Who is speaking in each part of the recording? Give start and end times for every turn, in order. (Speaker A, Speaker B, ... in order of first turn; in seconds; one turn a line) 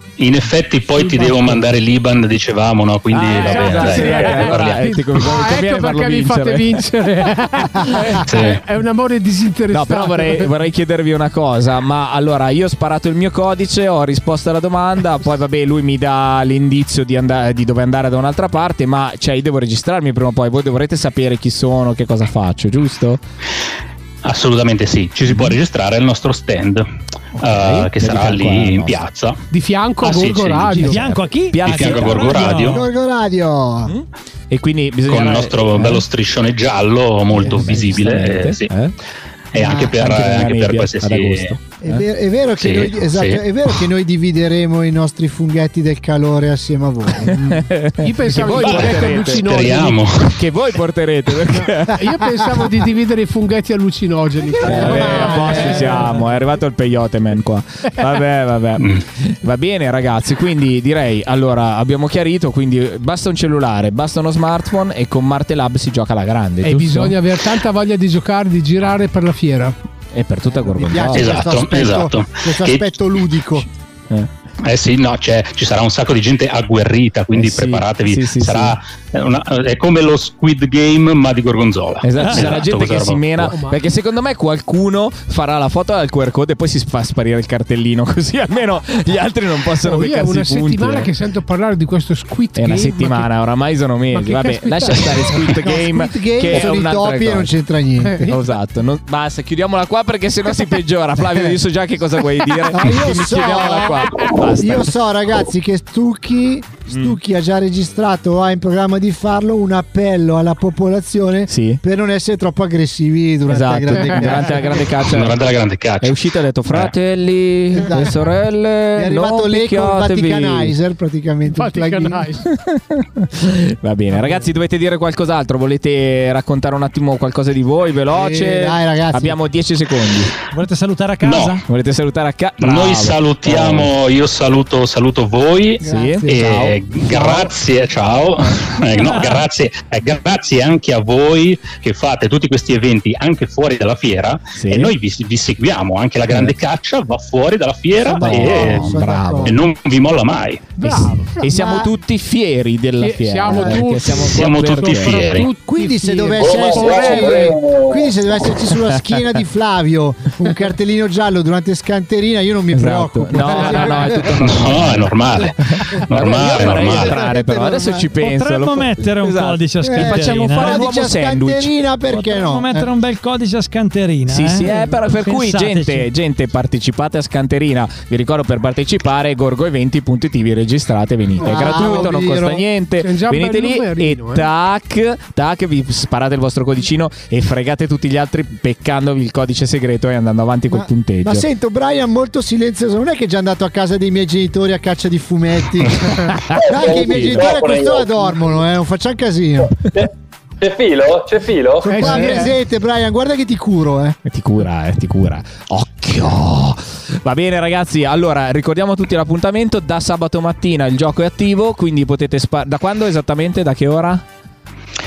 Speaker A: 0.2-4.9
Speaker B: 1.0-1.5
Speaker C: 3.1-6.8
Speaker B: 3.3-10.5
Speaker A: 8.2-8.6
Speaker C: 9.7-23.2
Speaker A: 24.2-29.4
Speaker C: 25.3-25.6
Speaker C: 27.4-29.0
Speaker B: 29.5-31.0
Speaker A: 30.0-30.9
Speaker D: 30.7-32.8
Speaker C: 30.9-32.5
Speaker A: 31.6-32.8
Speaker E: 32.6-33.9
Speaker C: 33.8-36.0
Speaker A: 35.1-38.7
Speaker C: 37.4-38.9
Speaker E: 37.5-37.8
Speaker A: 39.5-41.6
Speaker E: 39.6-39.9
Speaker C: 39.6-42.0
Speaker E: 41.8-47.4
Speaker A: 42.6-43.9
Speaker C: 47.2-49.8
Speaker B: 47.3-50.0
Speaker A: 48.6-50.5
Speaker C: 50.4-52.3
Speaker B: 51.5-56.2
Speaker E: 54.5-56.2
Speaker C: 54.6-67.2
Speaker A: 58.8-59.0
Speaker B: 66.6-69.7
Speaker C: 70.1-71.5
Speaker E: 70.4-73.7
Speaker A: 71.1-73.2
Speaker A: 74.6-83.5
Speaker C: 77.3-78.8
Speaker C: 82.0-91.1
Speaker D: 82.1-82.6
Speaker B: 83.5-83.8
Speaker B: 89.8-93.3
Speaker C: 92.5-97.5
Speaker B: 94.1-95.7
Speaker E: 95.6-98.3
Speaker B: 98.0-98.4
Speaker C: 98.2-104.9
Speaker E: 102.7-115.0
Speaker C: 111.5-111.8
Speaker C: 113.5-115.4
Speaker B: 113.9-114.8
Speaker A: 115.0-116.9
Speaker C: 116.0-120.7
Speaker E: 117.7-118.2
Speaker E: 118.9-122.2
Speaker B: 121.5-122.5
Speaker C: 122.4-130.3
Speaker B: 124.1-124.5
Speaker E: 128.1-129.4
Speaker D: 130.5-131.6
Speaker A: 131.2-131.6
Speaker C: 131.7-133.9
Speaker A: 132.6-150.7
Speaker E: 135.8-136.4
Speaker C: 135.8-137.5
Speaker D: 138.9-139.4
Speaker C: 144.6-144.9
Speaker D: 148.1-148.7
Speaker C: 148.2-149.6
Speaker E: 148.3-149.5
Speaker B: 150.8-151.4
Speaker C: 150.8-155.4
Speaker E: 151.5-151.9
Speaker B: 152.9-157.6
Speaker E: 153.5-153.9
Speaker A: 154.3-155.5
Speaker E: 155.7-164.7
Speaker F: 156.4-158.2
Speaker C: 162.7-171.7
Speaker B: 163.5-164.0
Speaker A: 164.3-167.2
Speaker E: 166.3-168.1
Speaker D: 168.2-170.9
Speaker E: 169.8-172.9
Speaker D: 172.1-176.1
Speaker C: 174.3-191.4
Speaker E: 181.4-182.6
Speaker B: 181.5-182.1
Speaker B: 183.0-184.5
Speaker E: 190.7-199.8
Speaker C: 196.1-197.6
Speaker F: 196.5-198.4
Speaker F: 199.9-202.4
Speaker E: 201.8-204.2
Speaker B: 201.9-202.5
Speaker C: 204.2-214.2